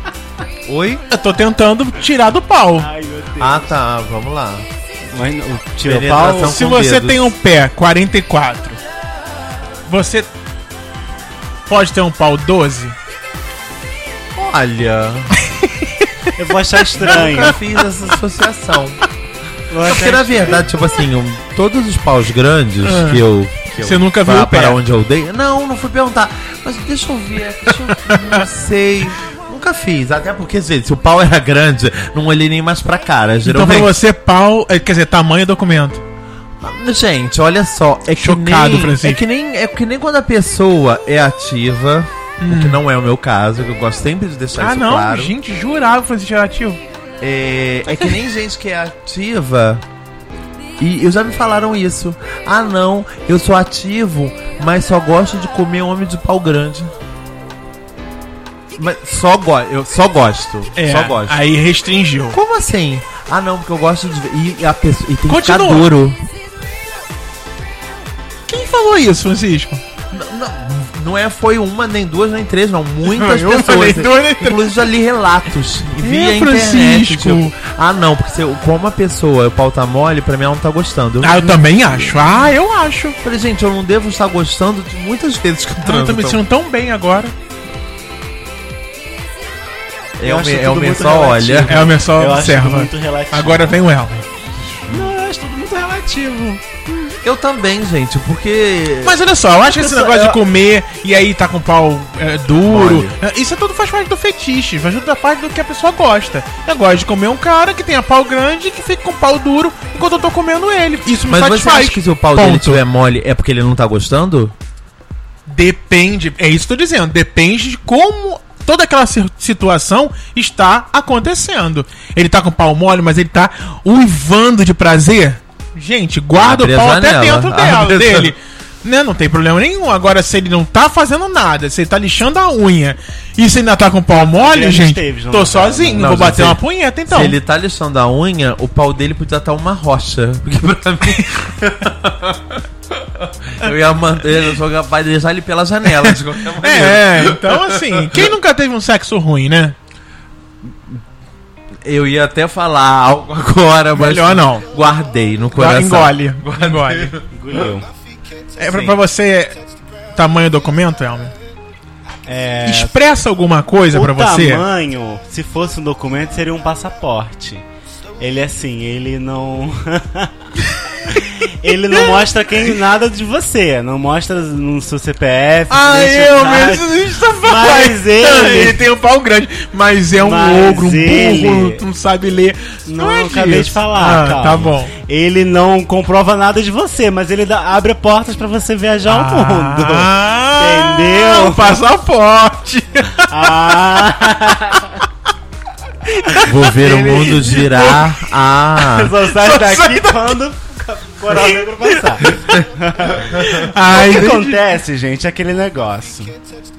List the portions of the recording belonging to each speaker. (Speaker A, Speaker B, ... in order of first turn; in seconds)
Speaker A: 0.7-1.0, 3.4-4.7, 5.8-7.3, 14.3-15.3, 17.0-19.0, 19.8-34.0, 36.6-45.4, 47.2-49.8, 50.8-56.9, 58.8-61.4, 62.3-66.2, 70.1-82.2, 83.2-86.4, 90.2-91.9, 94.9-95.1, 97.2-99.2, 102.7-103.2, 111.3-114.5, 126.4-128.3, 136.0-148.3, 150.6-151.0, 151.8-157.2, 158.7-159.0, 196.4-199.1
Speaker B: 1.1-2.9, 6.4-8.8, 9.9-10.3, 11.7-12.9, 15.4-16.1, 22.8-24.8, 28.0-28.4, 33.5-36.0, 38.2-39.2, 42.4-42.8, 44.6-46.8, 60.8-62.4, 65.3-65.9, 68.5-69.8, 73.1-74.8, 76.0-77.5, 81.2-83.2, 85.8-87.3, 91.7-94.2, 99.0-112.8, 115.5-137.4, 146.0-149.8, 153.9-154.7, 155.5-157.1, 158.6-159.6, 160.1-161.3, 162.7-164.6, 171.9-172.3, 175.7-184.9, 189.1-193.5, 196.1-198.2, 199.3-200.4, 201.3-202.3, 203.2-204.6
Speaker C: 2.8-3.7, 5.1-6.6, 16.4-17.6, 19.7-20.7, 90.2-93.8, 94.9-96.8, 99.7-100.4, 134.1-136.3, 157.3-157.9, 162.3-162.9, 163.9-167.7, 168.2-170.5, 171.1-178.8, 180.2-181.8, 182.9-191.8, 193.2-195.0, 198.9-206.3